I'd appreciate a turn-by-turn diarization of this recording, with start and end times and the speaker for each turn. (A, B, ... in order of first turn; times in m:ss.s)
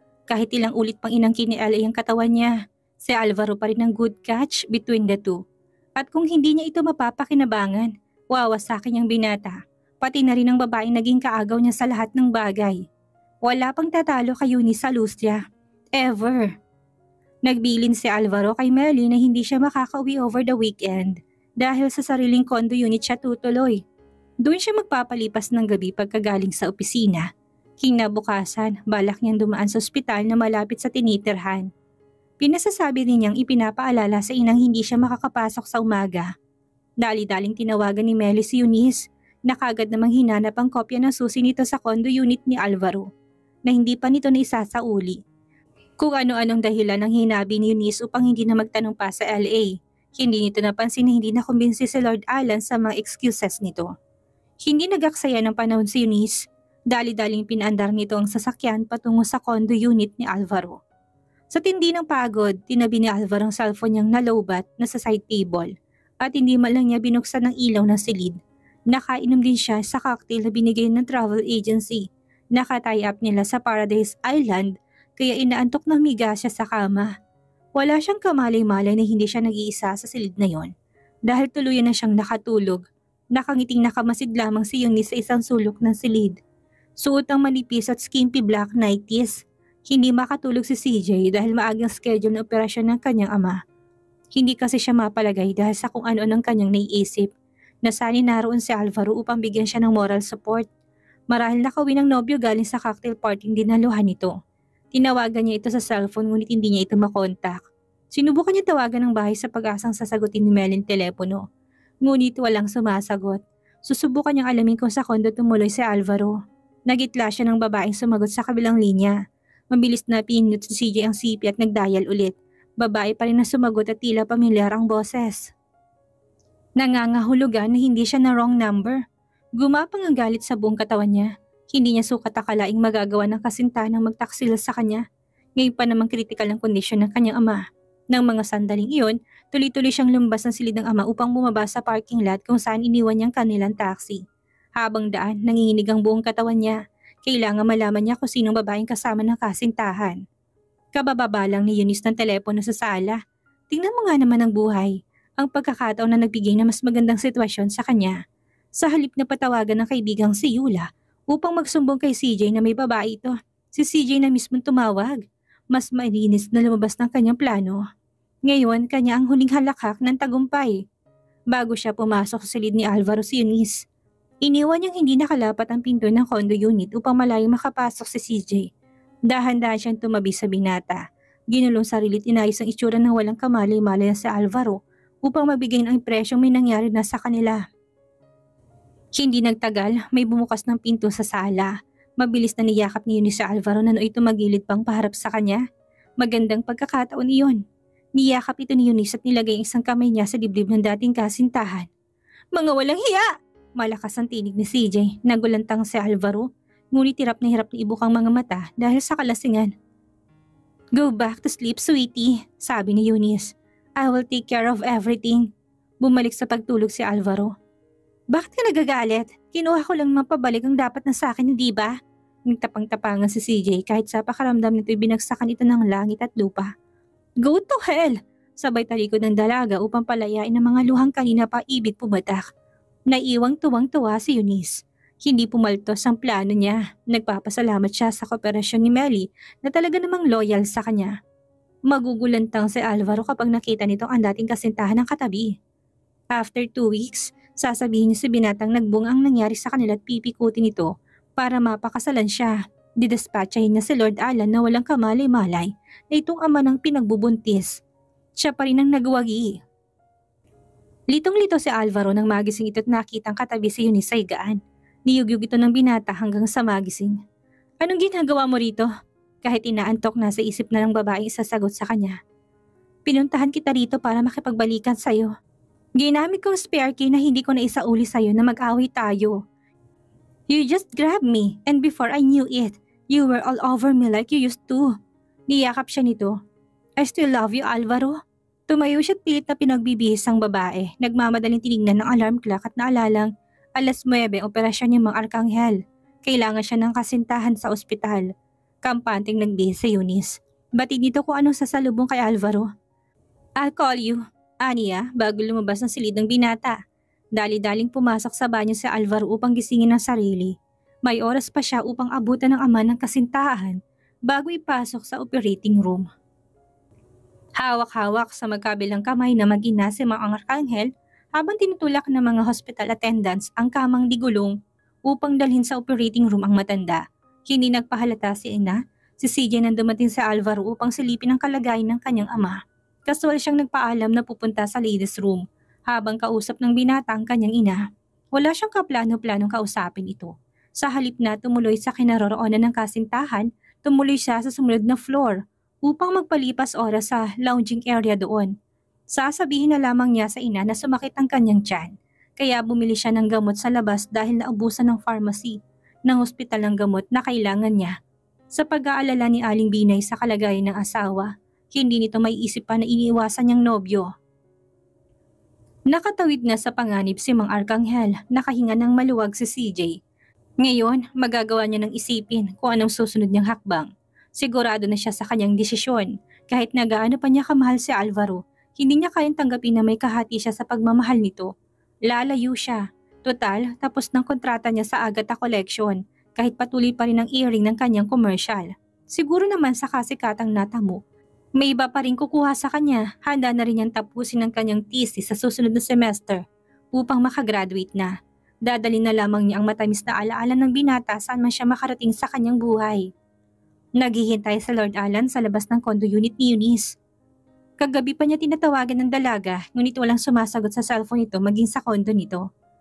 0:00.3-0:05.4 A
0:06.0-0:12.8 A
0:13.4-0:15.4 A
0:16.0-0:16.5 A
0:17.4-0:23.8 A
0:24.4-0:27.3 A
0:27.8-0:31.7 A
0:32.4-0:36.3 A
0:37.0-0:43.1 A
0:43.7-0:45.2 A
0:46.0-0:53.9 A
0:54.6-1:00.8 A
1:01.5-1:08.4 A
1:08.9-1:17.1 A
1:17.8-1:20.7 A
1:21.3-1:22.8 A
1:23.3-1:26.4 A
1:27.0-1:33.6 A
1:34.3-1:37.3 A
1:37.8-1:40.7 A
1:41.3-1:44.3 A
1:44.9-1:47.6 A
1:48.1-1:51.4 A
1:52.0-1:56.4 A
1:56.9-1:59.2 A
1:59.7-2:05.5 A
2:06.8-2:09.0 A
2:09.6-2:15.0 A
2:15.6-2:24.2 A
2:24.8-2:30.2 A
2:30.9-2:33.2 A
2:33.7-2:38.2 A
2:38.8-2:45.2 A
2:45.7-2:47.8 A
2:48.4-2:50.8 A
2:51.5-2:53.8 A
2:54.4-2:58.7 A
2:59.3-3:07.6 A
3:09.2-3:15.6 A
3:16.2-3:17.6 A
3:18.2-3:21.9 A
3:22.5-3:23.3 A
3:23.8-3:29.7 A
3:30.9-3:35.5 A
3:36.0-3:37.5 A
3:38.3-3:41.9 A
3:42.5-3:46.7 A
3:47.4-3:52.4 A
3:53.1-4:01.1 A
4:01.9-4:05.6 A
4:06.3-4:17.8 A
4:18.4-4:19.6 A
4:21.1-4:27.2 A
4:27.8-4:28.9 A
4:29.4-4:32.2 A
4:33.0-4:35.3 A
4:36.0-4:39.4 A
4:40.5-4:44.9 A
4:45.5-4:46.3 A
4:47.0-4:48.1 A
4:48.7-4:58.3 A
4:58.8-5:02.7 A
5:03.6-5:06.8 A
5:07.4-5:10.5 A
5:11.0-5:16.0 A
5:17.6-5:24.5 A
5:25.1-5:37.8 A
5:38.3-5:48.5 A
5:49.1-5:57.9 A
5:58.5-6:04.1 A
6:05.9-6:10.0 A
6:10.6-6:21.5 A
6:22.1-6:31.0 A
6:31.6-6:38.1 A
6:38.6-6:43.1 A
6:44.0-6:47.0 A
6:47.8-6:52.4 A